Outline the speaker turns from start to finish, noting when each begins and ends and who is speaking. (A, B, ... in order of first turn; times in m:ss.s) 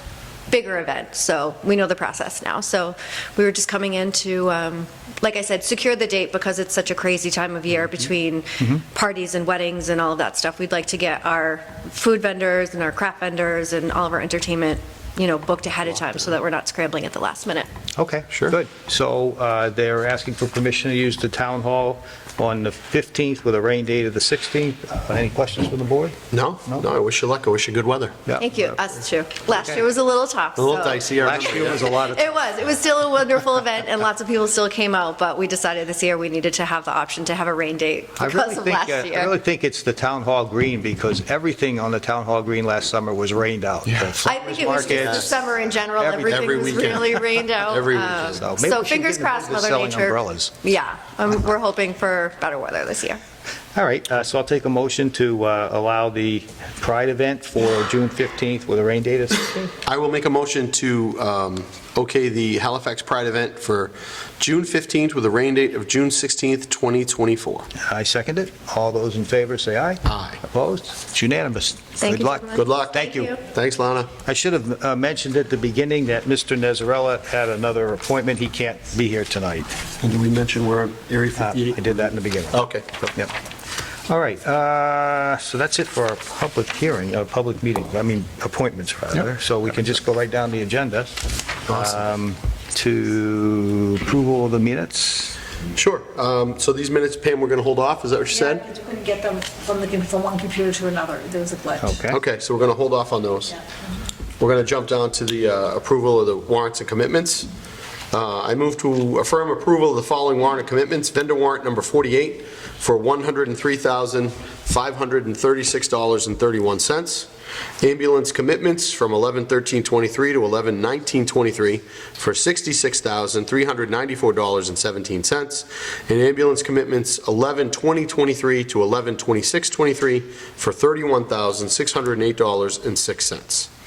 0:00.5-0:17.7 A
0:18.0-0:26.2 B
0:26.3-0:28.1 C
0:28.2-0:28.7 B
0:28.4-0:39.3 A
0:30.6-0:31.8 C
0:31.2-0:32.3 B
0:38.2-0:45.3 B
0:44.2-0:53.2 A
0:44.9-0:45.3 C
0:46.0-0:46.4 B
0:46.2-0:48.4 C
0:48.4-0:50.5 B
0:53.7-0:59.7 B
0:59.8-1:07.7 C
1:07.8-1:13.3 B
1:10.1-1:10.4 C
1:12.0-1:13.4 A
1:12.5-1:14.1 C
1:14.2-1:19.7 B
1:20.0-1:21.8 C
1:21.4-1:23.3 B
1:22.5-1:22.9 C
1:24.1-1:35.4 B
1:31.7-1:32.0 C
1:35.7-1:38.6 C
1:38.4-1:41.9 D
1:41.8-1:42.2 B
1:42.1-1:43.6 C
1:44.4-1:47.5 C
1:48.1-1:57.3 C
1:57.8-2:13.7 C